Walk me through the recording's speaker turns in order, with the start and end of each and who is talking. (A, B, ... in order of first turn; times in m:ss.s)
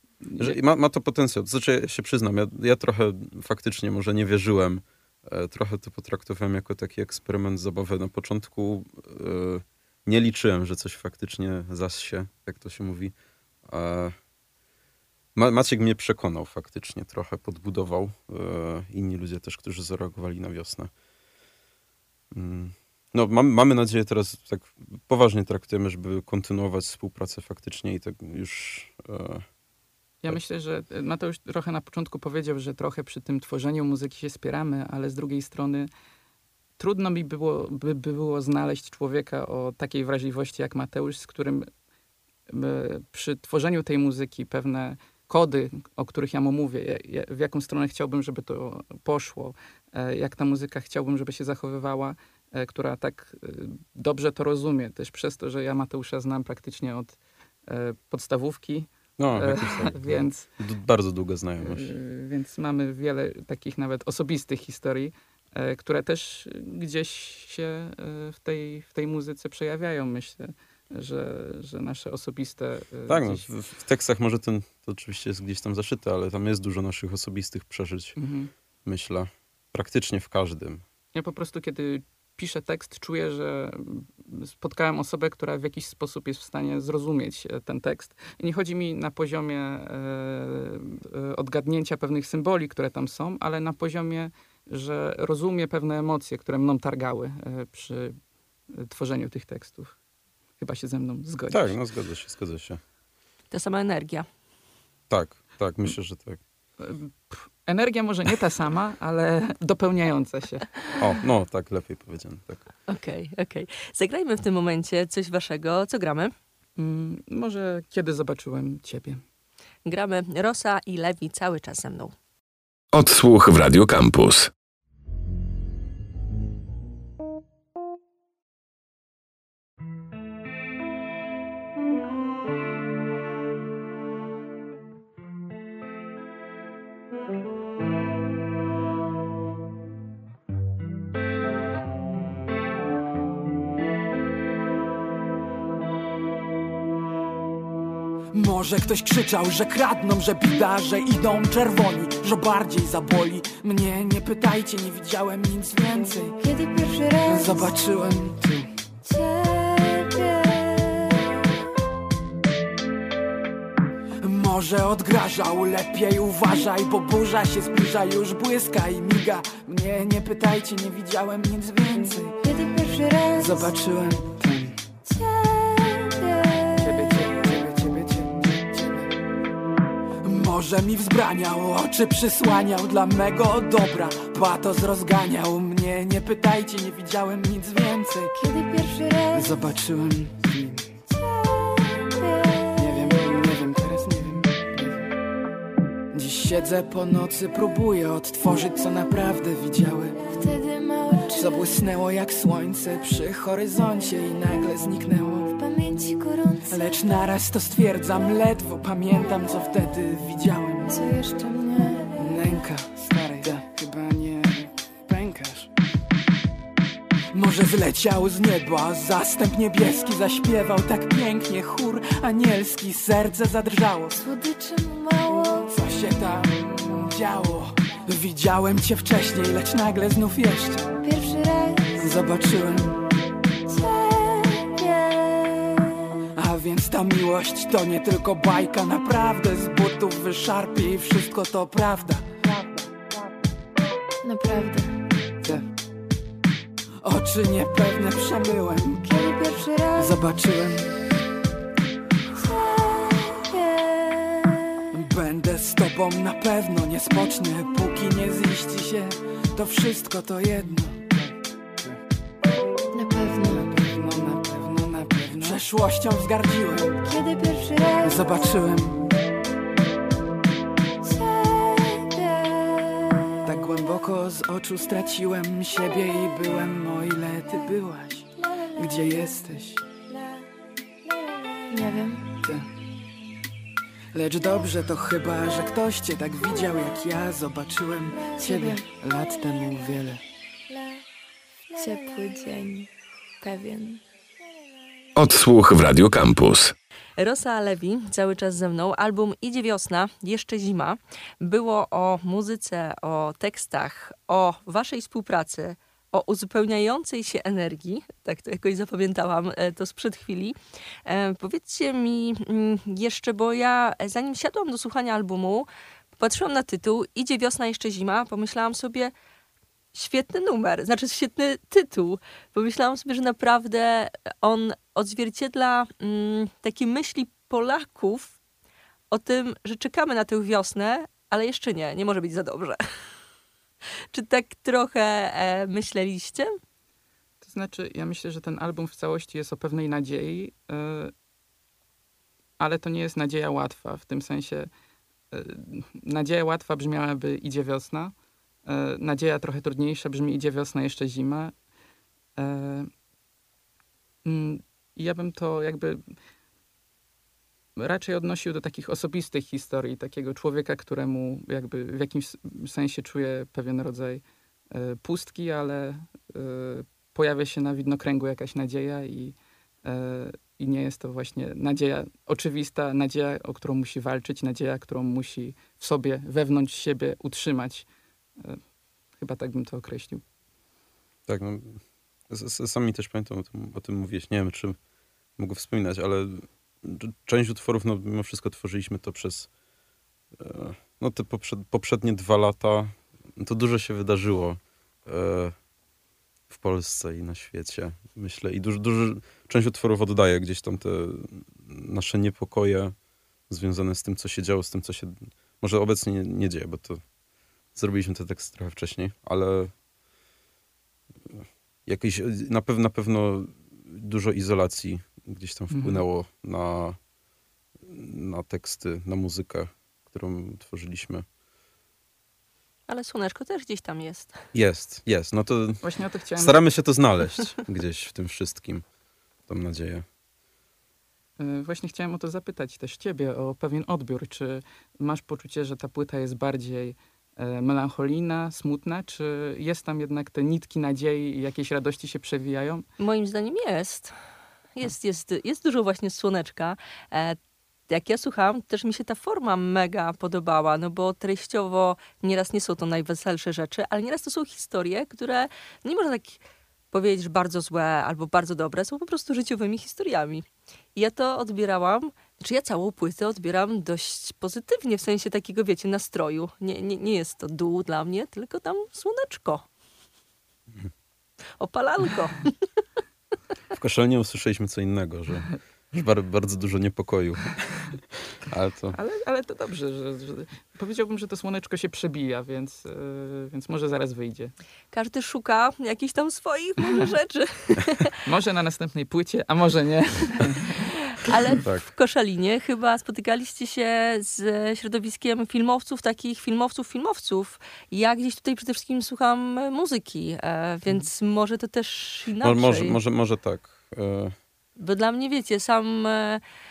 0:00.2-0:00.6 A
0:00.4-0:13.1 B
0:13.7-0:14.2 B
0:15.4-0:20.9 B
0:22.3-0:29.4 B
0:30.2-0:35.9 A
0:36.8-0:41.7 A
0:42.5-1:00.5 A
0:59.2-1:01.9 B
1:01.6-1:13.5 A
1:13.1-1:18.2 B
1:18.2-1:18.5 A
1:18.8-1:20.8 B
1:21.1-1:38.2 A
1:38.7-1:40.0 A
1:40.6-1:41.8 A
1:41.5-1:42.8 B
1:43.5-1:44.3 C
1:45.1-1:46.4 B
1:46.8-1:50.7 A
1:51.0-1:52.6 B
1:52.9-1:56.3 C
1:56.8-1:59.2 A
1:59.9-2:02.1 C
2:02.9-2:04.5 D
2:28.3-2:36.4 E
2:36.4-2:37.7 F
2:37.3-2:38.7 E
2:39.0-2:41.4 F
2:44.2-2:52.4 E
2:52.4-2:53.7 F
2:53.4-2:54.8 E
2:55.0-2:57.4 F
2:56.8-2:59.1 E
3:00.2-3:08.3 E
3:08.4-3:09.6 F
3:09.3-3:10.9 E
3:11.1-3:13.0 F
3:12.8-3:15.0 E
3:16.1-3:20.2 E
3:20.2-3:21.8 F
3:21.3-3:25.5 E
3:25.6-3:27.2 F
3:26.7-3:30.9 E
3:30.9-3:32.6 F
3:32.2-3:35.7 E
3:37.3-3:44.2 E
3:44.2-3:45.7 F
3:45.7-3:50.9 E
3:51.0-3:52.1 F
3:52.0-3:53.1 E
3:53.7-3:56.0 F
3:56.3-4:03.1 E
4:04.2-4:05.0 F
4:05.4-4:05.7 E
4:07.0-4:09.0 E
4:09.0-4:10.2 F
4:10.0-4:10.9 E
4:12.4-4:14.8 F
4:14.9-4:22.0 E
4:22.9-4:23.7 F
4:23.5-4:27.0 E
4:27.0-4:28.6 F
4:28.0-4:29.1 E
4:31.0-4:33.5 F
4:33.4-4:39.8 E
4:41.7-4:42.3 F
4:42.4-4:42.7 E
4:44.1-4:50.2 E
4:48.2-4:48.9 F
4:51.7-4:52.9 F
4:53.4-4:54.0 F
4:55.2-4:56.7 D
4:57.2-5:15.7 C
5:16.2-5:19.1 C
5:19.9-5:28.4 C
5:29.1-5:32.8 C
5:34.1-5:36.5 C
5:37.4-5:41.1 A
5:42.6-5:44.7 A
5:45.3-5:48.1 A
5:48.7-5:51.5 A
5:52.4-5:52.9 A
5:54.2-5:56.0 A
5:57.8-6:17.9 A
6:19.2-6:20.2 A
6:21.3-6:24.8 B
6:25.4-6:29.5 B
6:30.4-6:35.6 B
6:36.5-6:43.0 B
6:43.5-6:47.0 B
6:47.8-6:49.7 B
6:51.3-6:57.0 B
6:55.7-6:56.0 A
6:57.8-7:01.2 B
7:02.9-7:04.4 C
7:04.5-7:05.8 B
7:05.8-7:06.6 A
7:06.4-7:08.8 B
7:09.5-7:10.1 B
7:11.4-7:22.9 A
7:23.0-7:24.2 C
7:24.8-7:27.4 C
7:27.9-7:49.7 C
7:51.6-7:52.5 C
7:53.7-7:59.0 B
7:58.9-8:04.5 A
8:04.9-8:08.1 C
8:08.2-8:10.9 A
8:11.2-8:23.0 C
8:11.6-8:11.9 B
8:22.4-8:24.4 B
8:24.8-8:26.4 C